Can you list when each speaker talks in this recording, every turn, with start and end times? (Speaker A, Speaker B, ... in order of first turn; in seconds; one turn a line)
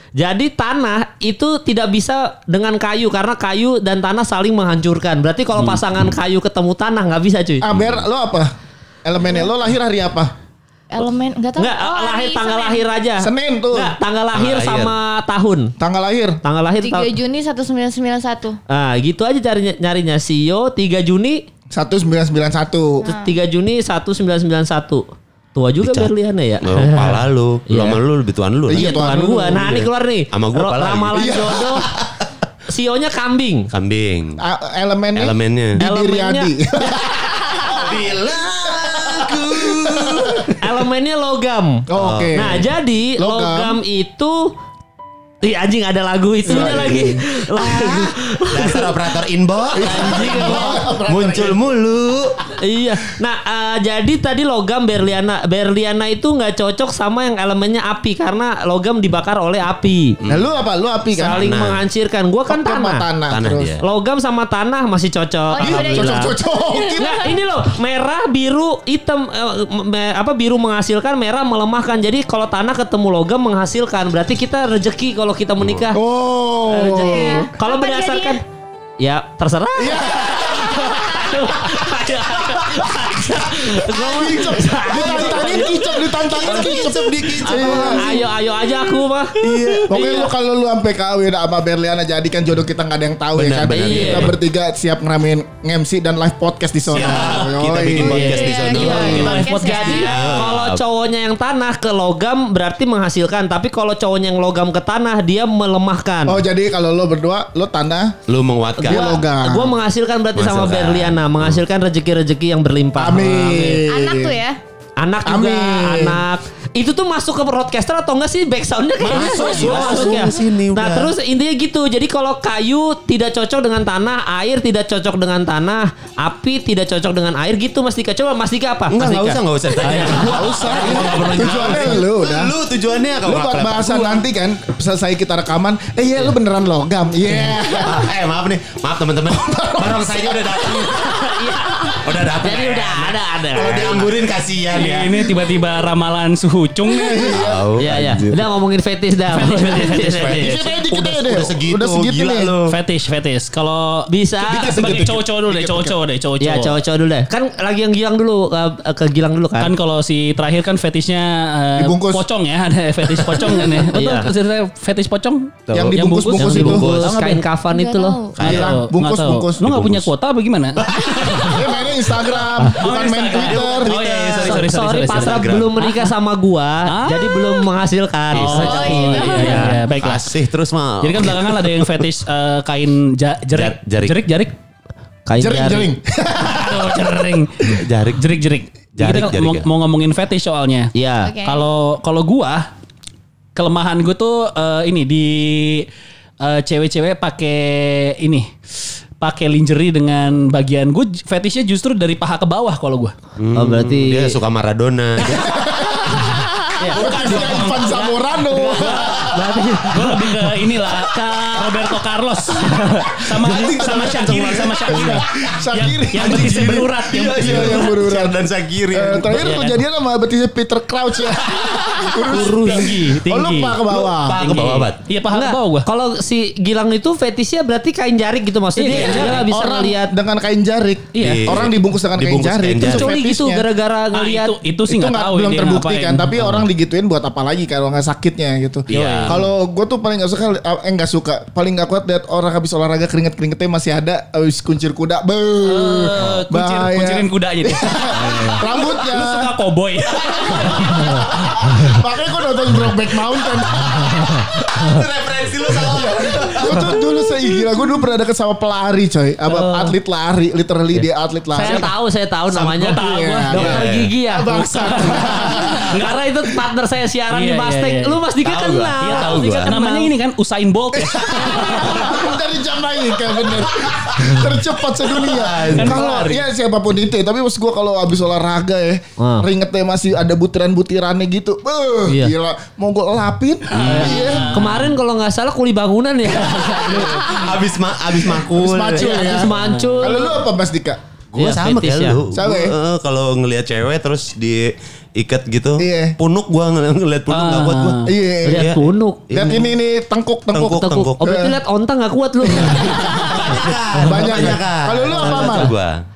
Speaker A: 0.1-7.6
Speaker B: 7.6-8.5
Speaker C: 7.7-8.0
Speaker B: 9.0-10.3
Speaker D: 10.9-12.8
Speaker A: 11.6-15.7
Speaker B: 13.2-13.9
Speaker C: 14.3-14.9
Speaker B: 15.8-16.4
Speaker A: 16.4-17.1
Speaker D: 16.8-18.6
Speaker A: 18.7-21.4
Speaker B: 21.7-23.0
Speaker D: 23.0-23.3
Speaker A: 23.0-28.0
Speaker C: 25.8-26.1
Speaker C: 26.6-32.0
Speaker B: 28.7-29.6
Speaker A: 28.7-31.9
Speaker B: 31.1-31.9
Speaker A: 32.7-33.7
Speaker C: 33.7-34.4
Speaker B: 34.4-37.8
Speaker C: 35.1-35.8
Speaker A: 35.8-37.0
Speaker C: 37.6-40.5
Speaker B: 38.8-40.5
Speaker A: 40.6-44.5
Speaker B: 41.9-43.8
Speaker C: 42.0-42.5
Speaker A: 45.4-49.0
Speaker B: 46.5-47.2
Speaker C: 46.5-52.4
Speaker A: 49.7-50.8
Speaker B: 49.7-51.7
Speaker A: 52.6-60.2
Speaker C: 60.2-60.5
Speaker B: 60.3-61.4
Speaker A: 61.1-63.0
Speaker C: 61.4-61.8
Speaker B: 62.5-63.8
Speaker C: 63.3-63.8
Speaker A: 63.8-66.3
Speaker D: 65.5-67.4
Speaker B: 65.6-67.2
Speaker A: 67.0-76.0
Speaker C: 75.6-75.9
Speaker B: 75.9-77.5
Speaker A: 76.7-78.4
Speaker D: 76.7-78.4
Speaker A: 79.0-90.3
Speaker B: 79.8-88.1
Speaker D: 80.9-81.3
Speaker C: 86.3-88.0
Speaker D: 88.2-88.7
Speaker B: 89.4-99.5
Speaker C: 93.3-94.4
Speaker A: 93.7-94.3
Speaker C: 96.9-100.8
Speaker E: 97.0-99.9
Speaker D: 98.2-100.1
Speaker A: 98.8-106.4
Speaker B: 106.2-108.2
Speaker C: 108.3-109.2
Speaker A: 108.8-113.8
Speaker B: 108.8-109.7
Speaker C: 110.3-111.6
Speaker B: 113.0-114.3
Speaker E: 113.2-113.8
Speaker D: 113.9-114.6
Speaker A: 115.0-130.4
Speaker B: 115.2-116.2
Speaker E: 119.0-120.4
Speaker C: 119.1-121.1
Speaker C: 128.9-134.2
Speaker B: 129.8-132.5
Speaker B: 133.2-138.1
Speaker C: 137.7-141.4
Speaker B: 139.3-141.3
Speaker A: 141.2-144.1
Speaker C: 141.9-145.3
Speaker E: 144.7-147.4
Speaker B: 146.9-147.7
Speaker C: 147.3-148.4
Speaker A: 147.8-150.6
Speaker E: 149.3-150.6
Speaker C: 150.1-152.8
Speaker B: 150.4-152.6
Speaker E: 152.7-156.8
Speaker A: 154.1-154.8
Speaker C: 154.4-155.9
Speaker A: 156.4-159.7
Speaker E: 159.6-167.4
Speaker B: 161.8-162.2
Speaker A: 163.9-164.3
Speaker C: 165.7-167.2
Speaker B: 165.7-167.0
Speaker A: 166.4-168.2
Speaker D: 167.7-168.4
Speaker C: 168.3-168.8
Speaker E: 168.4-171.7
Speaker B: 168.4-170.1
Speaker C: 170.8-171.8
Speaker B: 171.4-173.9
Speaker E: 172.6-176.1
Speaker C: 173.3-175.8
Speaker A: 174.4-179.8
Speaker E: 176.8-177.3
Speaker E: 178.3-180.3
Speaker C: 178.3-178.7
Speaker D: 178.5-179.7
Speaker C: 179.9-181.9
Speaker E: 181.0-184.5
Speaker C: 183.5-184.2
Speaker A: 185.3-185.9
Speaker B: 185.4-187.3
Speaker E: 186.4-190.9
Speaker C: 187.7-188.2
Speaker C: 188.9-189.7
Speaker A: 190.9-191.3
Speaker D: 191.2-191.6
Speaker E: 191.4-192.7
Speaker E: 193.5-195.9
Speaker E: 196.4-198.5
Speaker E: 199.2-203.1
Speaker C: 203.4-205.5
Speaker A: 203.5-204.3
Speaker B: 205.2-209.1
Speaker A: 206.8-210.6
Speaker E: 206.8-208.1
Speaker E: 209.8-217.9
Speaker A: 211.1-211.8
Speaker A: 212.6-213.8
Speaker B: 213.4-218.4
Speaker C: 216.2-219.6
Speaker B: 218.9-224.4
Speaker E: 222.1-223.8
Speaker A: 222.2-223.2
Speaker C: 223.9-225.0
Speaker E: 224.4-225.9
Speaker A: 225.3-230.1
Speaker E: 228.7-229.5
Speaker C: 228.9-229.4
Speaker B: 229.0-233.6
Speaker E: 231.1-231.7
Speaker C: 231.2-233.1
Speaker A: 232.8-234.6
Speaker E: 234.1-236.7
Speaker B: 234.9-249.5
Speaker C: 238.9-239.4
Speaker E: 238.9-239.4
Speaker E: 245.6-251.9
Speaker B: 250.2-254.6
Speaker C: 254.7-257.0
Speaker B: 255.9-261.9
Speaker A: 259.5-259.9
Speaker A: 261.5-270.1
Speaker E: 261.6-261.9
Speaker C: 262.5-263.0
Speaker B: 262.9-265.9
Speaker C: 263.5-264.1
Speaker E: 264.5-266.6
Speaker C: 265.3-265.8
Speaker E: 267.3-268.2
Speaker C: 268.4-269.7
Speaker E: 269.0-272.3
Speaker B: 270.9-284.7
Speaker C: 271.2-271.9
Speaker C: 273.5-274.3
Speaker C: 275.1-276.1
Speaker E: 275.7-276.5
Speaker A: 279.2-279.4
Speaker A: 282.1-282.3
Speaker E: 283.7-284.9
Speaker A: 283.9-287.3
Speaker E: 286.3-287.2
Speaker C: 287.2-289.4
Speaker B: 288.3-291.0
Speaker A: 288.9-290.5
Speaker E: 289.5-290.1
Speaker C: 291.3-299.7
Speaker A: 291.4-292.2
Speaker B: 292.3-292.7
Speaker B: 295.8-296.2
Speaker E: 297.3-298.1
Speaker B: 298.1-298.7
Speaker A: 298.4-299.3
Speaker B: 299.3-301.5
Speaker C: 300.5-301.2
Speaker A: 300.6-303.6
Speaker B: 302.5-305.7
Speaker E: 302.8-304.4
Speaker C: 303.2-306.0
Speaker A: 305.1-305.7